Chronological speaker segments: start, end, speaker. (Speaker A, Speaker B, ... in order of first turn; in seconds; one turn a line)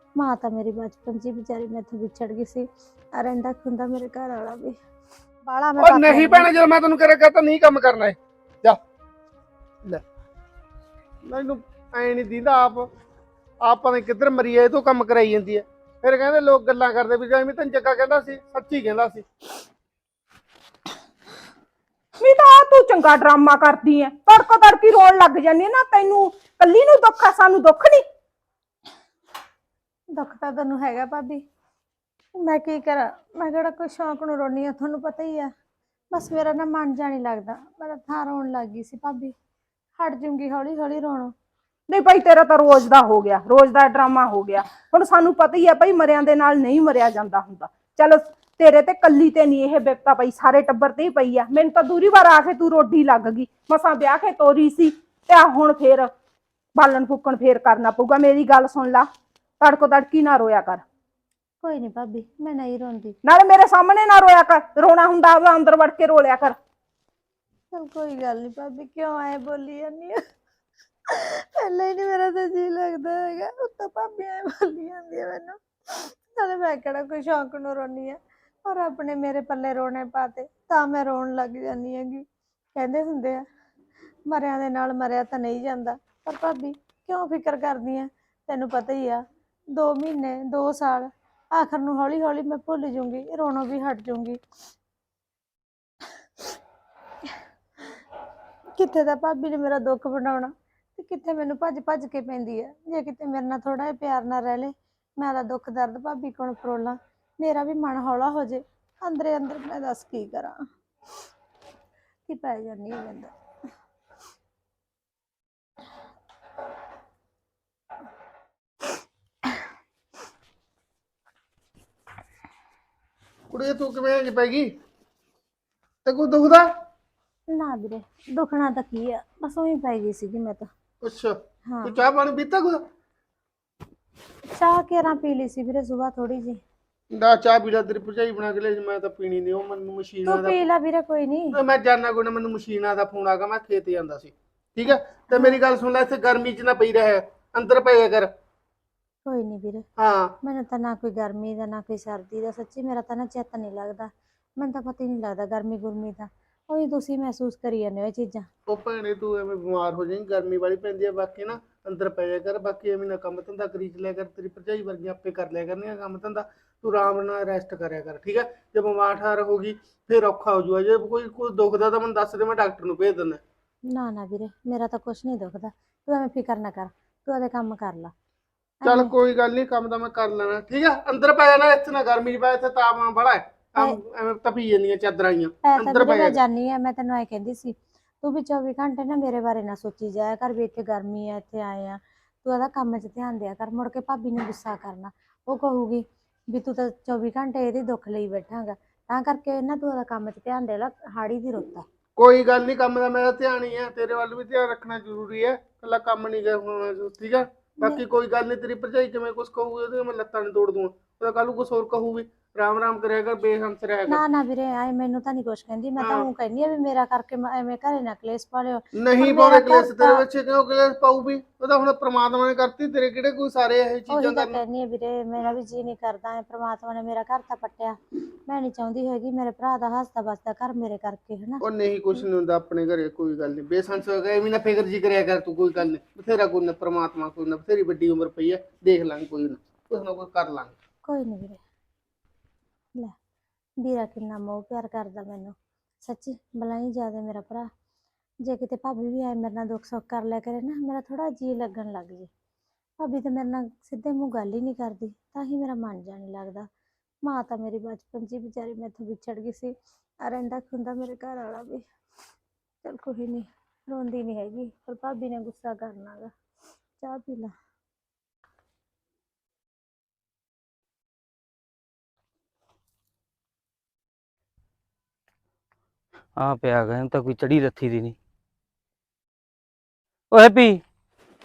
Speaker A: 0.2-4.8
Speaker A: 5.5-6.5
Speaker B: 5.8-8.8
Speaker B: 11.3-12.9
Speaker B: 13.6-19.2
Speaker C: 22.2-28.0
Speaker A: 30.1-31.4
Speaker A: 32.4-35.5
Speaker A: 36.1-39.3
Speaker A: 40.0-41.3
Speaker C: 41.9-56.1
Speaker C: 56.8-59.1
Speaker C: 59.6-60.8
Speaker A: 61.6-63.2
Speaker C: 63.2-66.6
Speaker A: 67.7-70.2
Speaker A: 71.1-83.5
Speaker A: 84.3-94.4
Speaker A: 98.8-110.6
Speaker A: 112.3-113.3
Speaker B: 123.5-124.7
Speaker B: 126.0-126.7
Speaker A: 127.5-130.7
Speaker B: 131.0-132.8
Speaker A: 131.7-132.0
Speaker A: 134.5-136.6
Speaker B: 137.1-140.6
Speaker A: 140.3-141.6
Speaker B: 141.5-148.3
Speaker A: 145.3-145.6
Speaker A: 149.3-149.8
Speaker B: 150.0-150.3
Speaker A: 150.4-158.5
Speaker B: 158.7-173.4
Speaker A: 173.9-178.1
Speaker A: 178.8-179.1
Speaker B: 178.9-186.4
Speaker A: 185.6-201.8
Speaker B: 202.2-214.2
Speaker A: 214.1-220.2
Speaker B: 216.0-216.3
Speaker B: 219.0-224.6
Speaker A: 224.1-231.6
Speaker B: 231.6-240.8
Speaker A: 241.1-241.6
Speaker A: 243.8-247.7
Speaker A: 248.4-252.3
Speaker A: 253.0-256.7
Speaker A: 257.2-261.9
Speaker A: 262.8-266.3
Speaker A: 267.0-267.5
Speaker D: 276.4-278.2
Speaker D: 280.3-280.8